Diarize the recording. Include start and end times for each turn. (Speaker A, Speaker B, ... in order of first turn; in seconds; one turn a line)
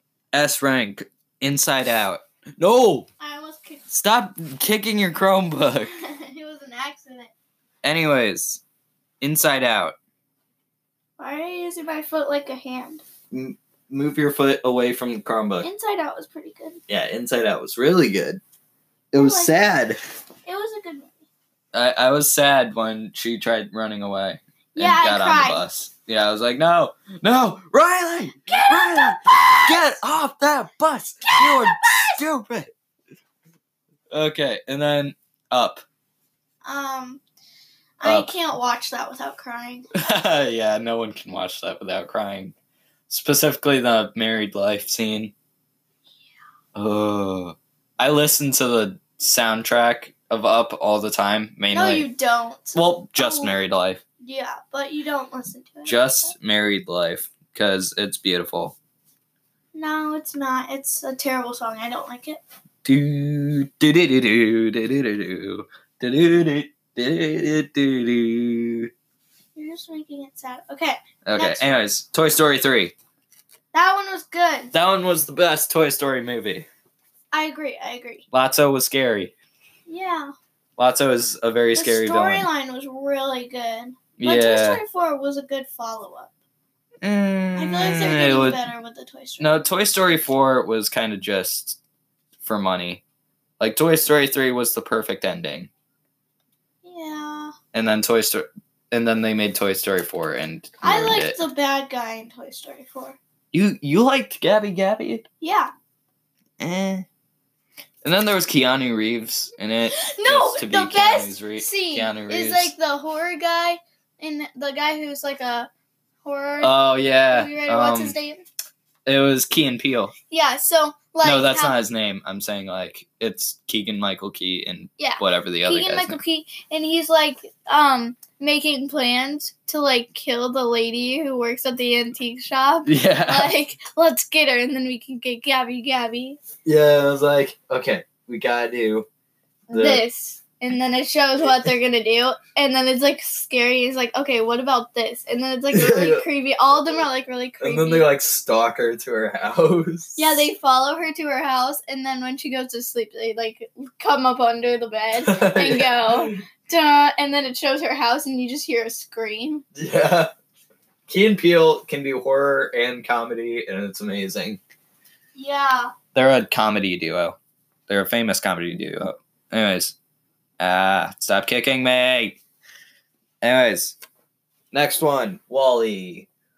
Speaker A: 0.3-3.1
Speaker B: 3.2-3.8
Speaker A: 3.9-5.9
Speaker B: 5.9-7.3
Speaker A: 7.8-8.6
Speaker A: 9.2-10.0
Speaker B: 11.2-13.0
Speaker A: 13.3-15.7
Speaker B: 15.6-16.8
Speaker A: 16.9-18.4
Speaker A: 19.1-20.0
Speaker B: 19.1-19.5
Speaker B: 20.5-21.3
Speaker A: 21.7-32.7
Speaker B: 24.8-25.6
Speaker B: 28.5-29.9
Speaker B: 31.3-32.2
Speaker A: 34.1-35.8
Speaker B: 36.6-37.2
Speaker B: 38.0-39.9
Speaker A: 38.0-38.3
Speaker A: 39.9-42.5
Speaker A: 43.1-45.3
Speaker A: 46.8-52.1
Speaker B: 51.7-53.6
Speaker A: 52.7-54.0
Speaker B: 54.2-56.3
Speaker A: 55.9-58.8
Speaker B: 59.8-62.4
Speaker A: 62.8-68.9
Speaker B: 69.5-71.7
Speaker A: 71.2-72.9
Speaker B: 73.7-74.7
Speaker A: 74.7-76.7
Speaker B: 77.3-78.2
Speaker A: 78.3-79.3
Speaker B: 79.9-80.3
Speaker A: 80.8-82.5
Speaker B: 81.7-86.3
Speaker A: 84.2-84.8
Speaker A: 87.0-88.6
Speaker B: 87.6-89.5
Speaker A: 89.4-91.8
Speaker A: 92.4-93.0
Speaker A: 93.6-95.7
Speaker B: 96.8-97.5
Speaker A: 97.7-101.4
Speaker B: 100.8-103.2
Speaker A: 103.5-105.2
Speaker B: 105.4-105.7
Speaker A: 106.6-107.1
Speaker A: 108.0-112.7
Speaker B: 109.9-115.7
Speaker B: 116.2-116.7
Speaker A: 116.6-118.2
Speaker B: 117.3-118.4
Speaker A: 119.1-120.1
Speaker B: 120.3-121.8
Speaker A: 121.2-126.2
Speaker B: 125.0-136.4
Speaker A: 132.9-133.5
Speaker A: 136.7-139.1
Speaker A: 139.7-140.0
Speaker B: 139.7-148.1
Speaker A: 145.7-146.3
Speaker A: 147.6-150.4
Speaker B: 150.2-159.7
Speaker A: 155.2-156.4
Speaker A: 159.8-160.3
Speaker A: 161.1-164.6
Speaker B: 165.3-165.9
Speaker A: 166.1-167.4
Speaker A: 167.9-169.9
Speaker A: 170.6-172.4
Speaker A: 173.4-174.0
Speaker A: 174.7-176.3